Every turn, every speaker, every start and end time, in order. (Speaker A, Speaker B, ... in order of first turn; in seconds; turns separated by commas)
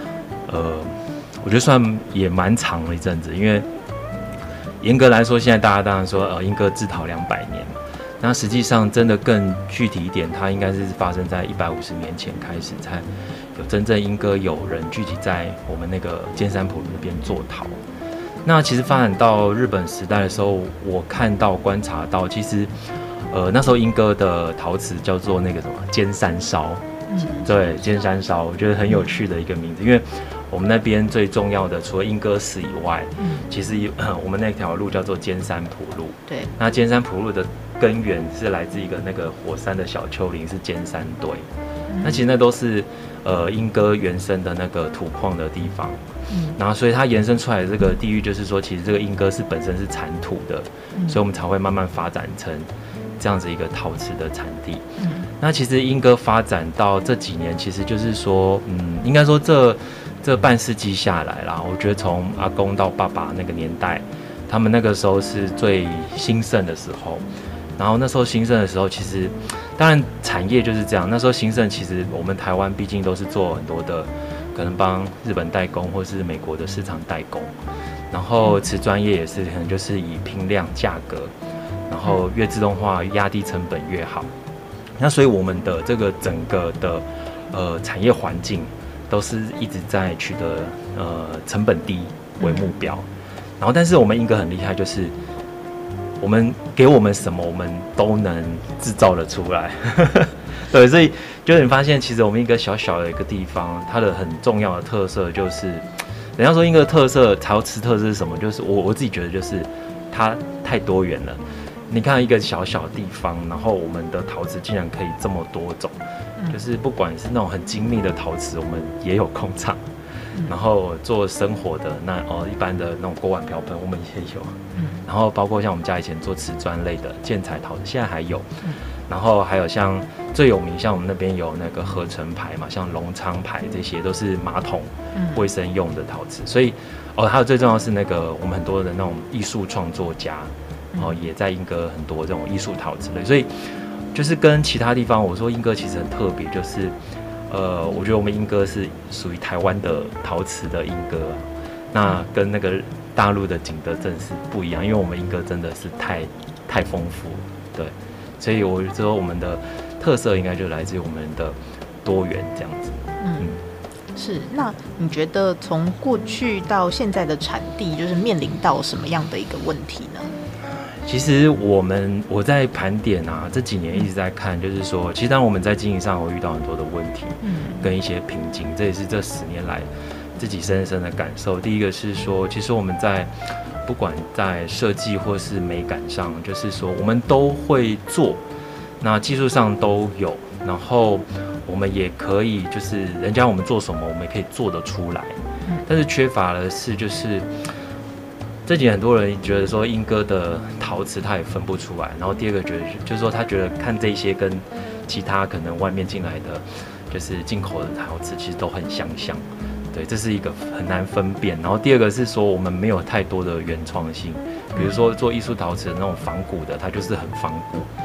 Speaker A: 0.5-3.7, Speaker A: 4.8-17.8, Speaker A: 18.4-22.7, Speaker A: 23.3-41.5, Speaker B: 27.1-27.5, Speaker B: 33.2-33.4, Speaker B: 41.9-42.2, Speaker A: 42.0-46.0, Speaker B: 46.3-46.6, Speaker A: 46.5-54.8, Speaker B: 50.9-51.2, Speaker B: 55.0-55.3, Speaker A: 55.4-67.2, Speaker A: 67.8-77.5, Speaker A: 78.1-81.3, Speaker A: 81.9-84.3, Speaker A: 85.0-93.0, Speaker B: 92.4-92.7, Speaker A: 93.6-95.1, Speaker A: 96.2-105.8, Speaker A: 106.4-116.0, Speaker A: 116.5-119.8, Speaker A: 120.4-128.5, Speaker B: 124.7-125.0, Speaker A: 129.1-146.9, Speaker B: 135.1-135.4, Speaker A: 147.5-163.6, Speaker B: 163.2-163.5, Speaker B: 164.2-170.3, Speaker A: 171.0-188.4, Speaker B: 177.4-177.8, Speaker A: 189.0-197.5, Speaker A: 198.7-217.9, Speaker B: 214.7-215.0